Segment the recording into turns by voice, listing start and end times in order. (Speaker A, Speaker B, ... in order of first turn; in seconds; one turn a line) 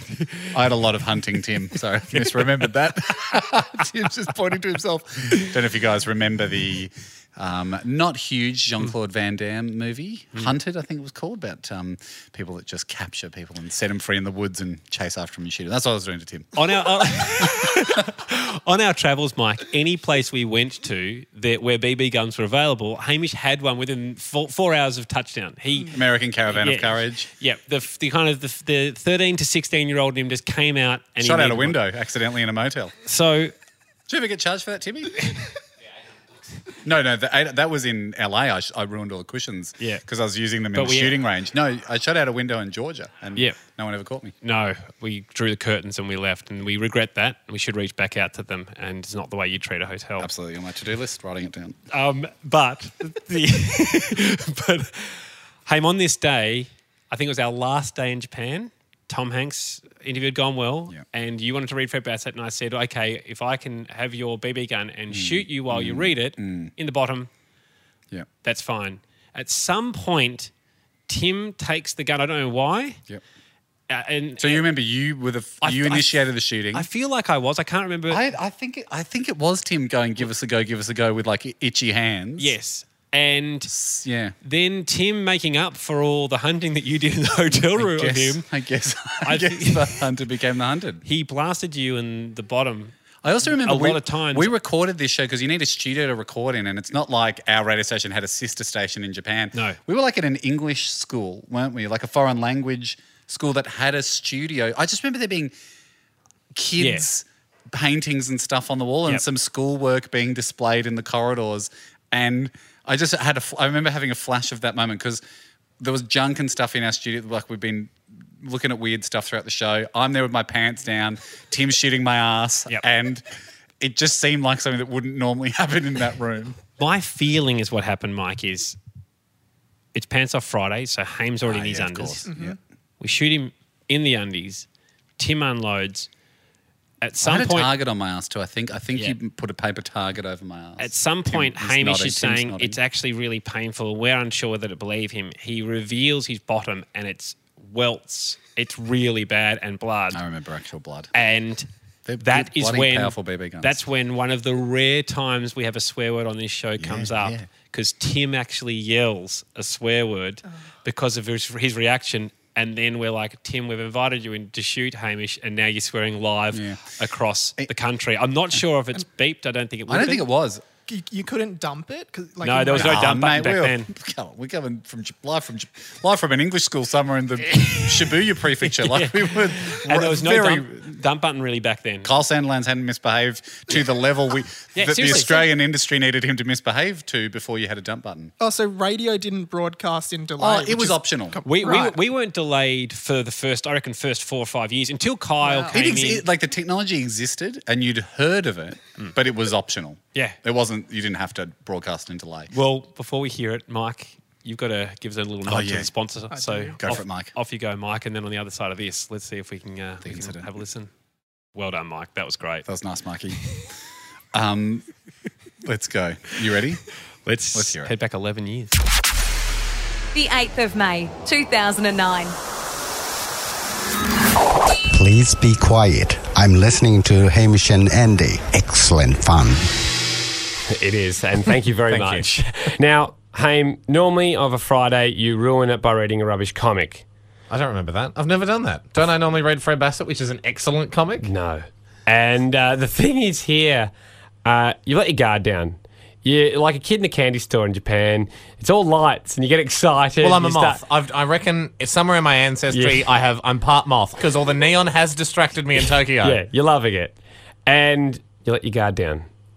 Speaker A: 0.2-0.5
Speaker B: 0.4-17.8
Speaker A: 2.1-2.5
Speaker A: 16.6-31.8
Speaker B: 25.9-27.3
Speaker B: 31.2-32.9
Speaker A: 33.0-33.5
Speaker B: 34.1-35.3
Speaker B: 36.8-44.3
Speaker A: 40.7-41.2
Speaker A: 44.4-50.3
Speaker B: 50.2-51.8
Speaker A: 51.9-67.3
Speaker B: 65.1-66.7
Speaker A: 68.4-70.5
Speaker A: 71.1-73.0
Speaker A: 73.9-74.7
Speaker B: 74.4-76.9
Speaker A: 75.6-78.2
Speaker B: 78.1-82.5
Speaker A: 82.4-83.7
Speaker B: 83.7-84.3
Speaker A: 84.4-88.5
Speaker B: 87.8-91.0
Speaker A: 89.2-90.0
Speaker A: 91.0-92.9
Speaker B: 93.2-105.5
Speaker A: 93.5-94.5
Speaker B: 106.5-115.2
Speaker A: 106.8-107.1
Speaker B: 115.8-123.2
Speaker B: 123.8-126.6
Speaker A: 126.8-128.8
Speaker A: 129.9-132.2
Speaker B: 131.4-132.6
Speaker C: 132.3-132.6
Speaker A: 133.0-134.7
Speaker A: 135.2-136.1
Speaker A: 137.0-137.7
Speaker B: 137.2-142.8
Speaker A: 140.8-150.2
Speaker B: 150.1-151.1
Speaker A: 151.1-151.7
Speaker B: 152.1-153.8
Speaker A: 152.2-170.2
Speaker B: 156.8-157.4
Speaker B: 166.5-166.8
Speaker B: 169.9-170.6
Speaker C: 170.9-173.0
Speaker A: 172.4-173.9
Speaker B: 172.7-180.9
Speaker A: 178.7-182.1
Speaker B: 182.0-188.3
Speaker A: 184.8-185.5
Speaker C: 188.4-192.0
Speaker B: 190.4-191.4
Speaker A: 191.4-196.2
Speaker C: 195.4-195.8
Speaker B: 195.7-202.5
Speaker A: 202.5-210.9
Speaker B: 205.4-205.9
Speaker C: 206.3-206.8
Speaker B: 206.8-207.3
Speaker B: 210.0-210.5
Speaker A: 211.5-212.7
Speaker B: 212.7-213.4
Speaker B: 214.3-214.9
Speaker B: 215.6-216.8
Speaker A: 217.2-218.8
Speaker B: 217.5-217.9
Speaker D: 220.1-222.3
Speaker E: 224.8-229.7
Speaker F: 230.7-237.0
Speaker G: 231.9-232.2
Speaker G: 237.5-241.3
Speaker F: 241.2-243.9
Speaker F: 244.4-250.8
Speaker G: 250.2-256.4
Speaker F: 252.7-253.1
Speaker F: 256.2-257.1
Speaker F: 257.6-259.2